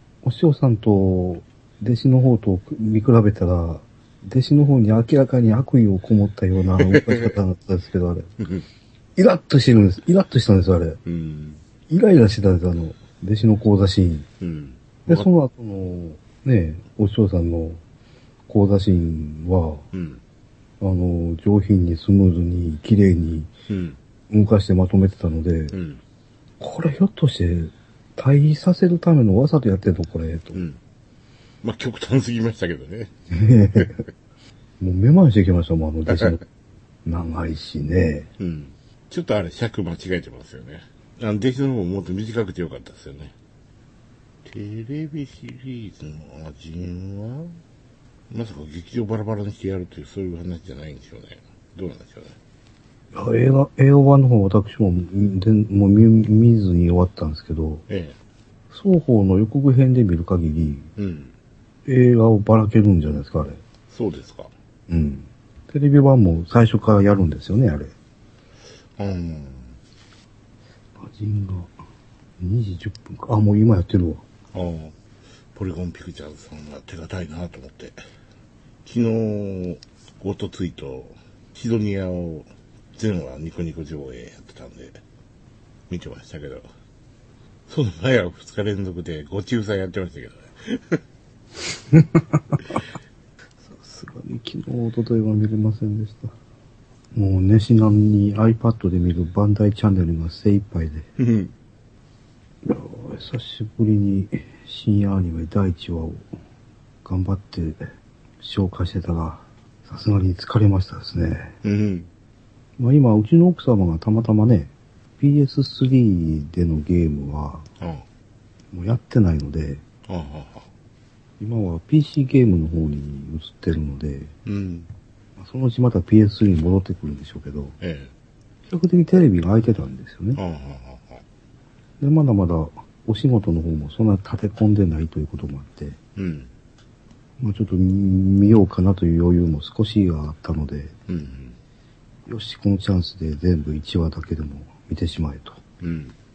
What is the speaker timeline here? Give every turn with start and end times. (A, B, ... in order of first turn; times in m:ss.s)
0:00.2-0:08.3 A
0:06.8-0:07.4 B
0:08.4-0:08.7 B
0:09.2-0:11.0 A
0:11.0-0:11.6 B
0:11.9-0:14.3 A
0:14.4-0:15.3 B
0:15.1-0:17.8 A
0:18.5-0:19.9 A
0:19.9-0:20.2 B
0:20.8-0:23.5 A
0:23.7-0:24.0 B
0:24.3-0:25.8 A
0:25.7-0:26.0 B
0:26.6-0:30.6 A
0:30.5-0:30.8 B
0:31.6-0:33.1 B
0:33.3-0:34.0 A
0:34.8-0:36.4 A
0:37.0-0:38.3 A
0:38.4-0:43.3 B
0:44.4-0:47.6 B
0:48.3-0:52.4 B
0:53.1-0:57.8 A
0:57.9-0:58.2 B
0:58.7-1:00.9 A
1:01.0-1:01.3 B
1:01.9-1:03.6 A
1:03.9-1:04.5 B
1:04.9-1:07.9 A
1:09.0-1:09.8 B
1:11.0-1:11.8 A
1:12.4-1:14.2 A
1:14.5-1:15.0 B
1:15.5-1:18.0 B
1:18.8-1:25.0 B
1:25.9-1:26.7 B
1:27.7-1:31.0 B
1:31.9-1:32.6 A
1:33.6-1:36.4 A
1:37.1-1:41.1 A
1:41.2-1:41.5 B
1:42.6-1:46.3 A
1:47.0-1:47.8 A
1:48.4-1:51.5 A
1:51.6-1:52.1 B
1:52.8-1:57.7 A
1:57.8-1:58.0 B
1:58.7-1:59.8 A
2:00.1-2:00.7 B
2:01.4-2:04.3 A
2:04.4-2:04.9 B
2:05.4-2:07.8 A
2:07.8-2:08.1 B
2:08.7-2:10.4 A
2:10.4-2:11.2 B
2:12.0-2:16.0 A
2:16.2-2:16.5 B
2:17.4-2:21.0 A
2:21.1-2:21.6 B
2:22.3-2:25.6 A
2:25.8-2:26.2 B